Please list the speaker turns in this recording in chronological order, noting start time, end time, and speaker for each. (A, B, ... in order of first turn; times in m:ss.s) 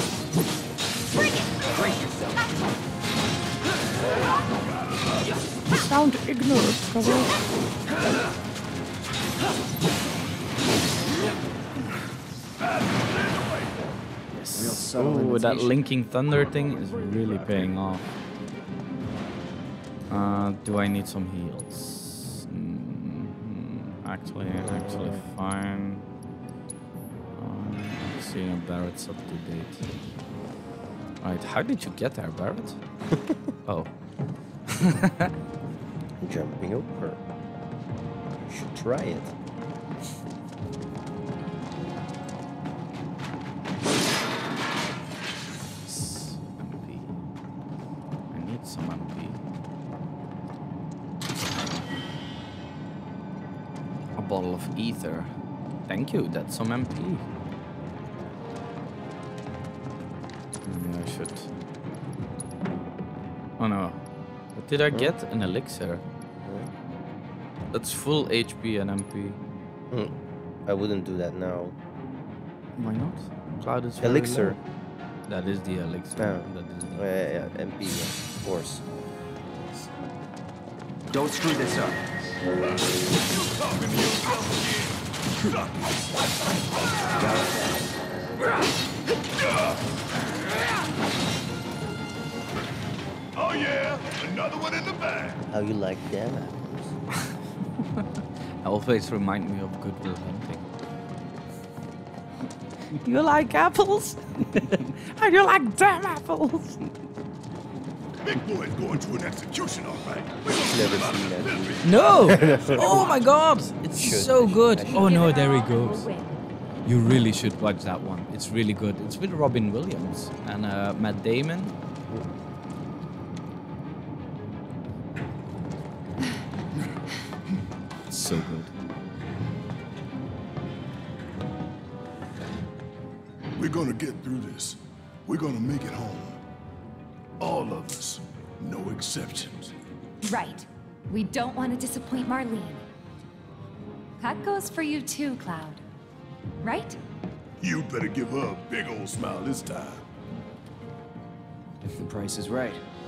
0:01.7-0:02.4 A
0:05.7-0:07.3 B
0:12.6-0:13.9 C
0:14.3-0:18.0 B
0:14.5-0:15.8 A
0:17.3-0:17.7 C
0:20.1-0:26.1 B
0:24.5-0:25.2 D
0:27.4-0:29.9 B
0:31.2-0:32.8 B
0:33.1-0:33.4 D
0:33.7-0:33.9 B
0:34.7-0:35.3 B
0:36.2-0:37.2 D
0:38.3-0:39.3 D
0:45.9-0:47.2 B
0:48.3-0:49.4 B
0:54.2-0:55.3 B
0:55.9-0:57.3 B
1:00.6-1:01.5 B
1:03.6-1:04.0 B
1:04.6-1:06.0 B
1:06.4-1:06.7 D
1:07.7-1:09.4 B
1:10.7-1:11.8 D
1:12.8-1:14.6 B
1:14.0-1:14.6 D
1:15.3-1:17.2 B
1:16.2-1:18.8 D
1:21.1-1:22.0 A
1:22.6-1:27.1 C
1:27.2-1:27.6 A
1:33.4-1:35.4 C
1:35.4-1:36.9 D
1:37.2-1:38.1 B
1:38.6-1:40.7 B
1:42.9-1:47.0 B
1:48.2-1:53.2 C
1:50.6-1:53.2 D
1:51.8-1:56.1 B
1:54.0-1:55.2 D
1:54.9-1:56.5 E
1:56.9-2:01.8 B
2:08.1-2:08.7 B
2:13.6-2:16.4 C
2:17.4-2:19.7 C
2:20.2-2:22.8 E
2:24.2-2:25.8 E
2:26.6-2:27.0 E
2:27.6-2:30.0 C
2:31.8-2:32.8 A